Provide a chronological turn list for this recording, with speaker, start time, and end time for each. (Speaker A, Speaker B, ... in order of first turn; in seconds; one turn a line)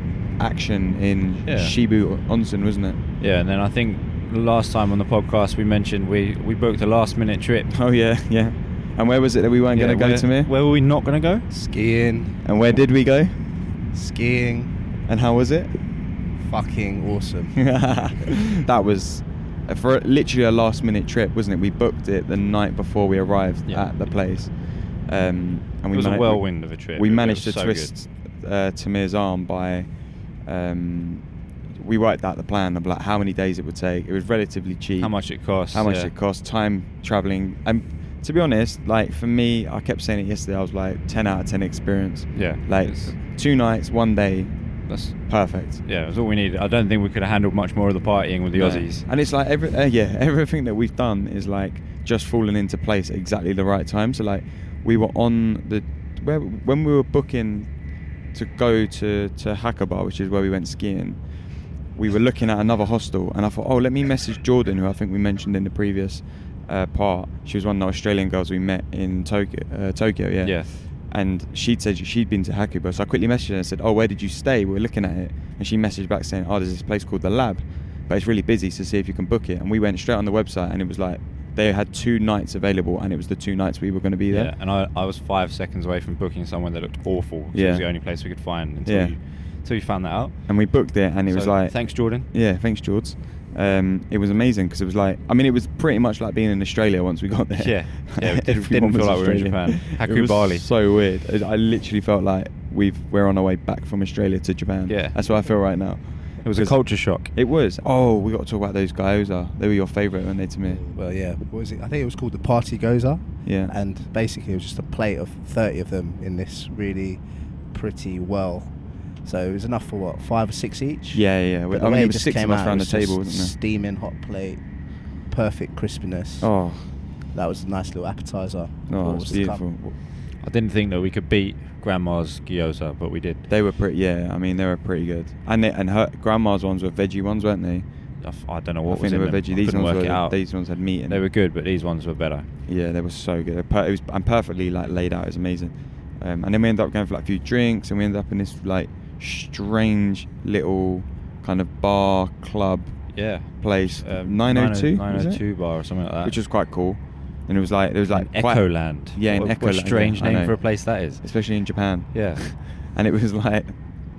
Speaker A: 0.4-3.0
Speaker B: 1.4-1.8
Speaker B: 3.2-7.7
Speaker A: 7.7-10.5
Speaker B: 9.7-11.5
Speaker C: 11.5-12.4
Speaker A: 12.4-13.3
Speaker C: 13.9-14.7
Speaker A: 15.1-15.8
Speaker C: 16.4-17.9
Speaker A: 17.6-45.8
Speaker B: 23.6-24.2
Speaker B: 25.9-28.0
Speaker B: 35.0-36.1
Speaker B: 42.3-43.1
Speaker B: 44.9-49.1
Speaker A: 48.5-84.5
Speaker B: 70.4-70.7
Speaker B: 84.3-92.3
Speaker A: 87.5-89.2
Speaker A: 90.5-110.8
Speaker B: 97.5-100.7
Speaker B: 104.9-105.2
Speaker B: 106.4-107.3
Speaker C: 110.7-126.7
Speaker A: 113.4-113.7
Speaker A: 121.1-123.5
Speaker A: 126.4-126.9
Speaker C: 127.3-129.7
Speaker A: 128.9-129.9
Speaker B: 130.4-133.5
Speaker A: 133.5-138.2
Speaker B: 138.2-142.5
Speaker A: 138.8-141.2
Speaker A: 142.7-163.9
Speaker B: 153.1-156.4
Speaker B: 158.1-162.6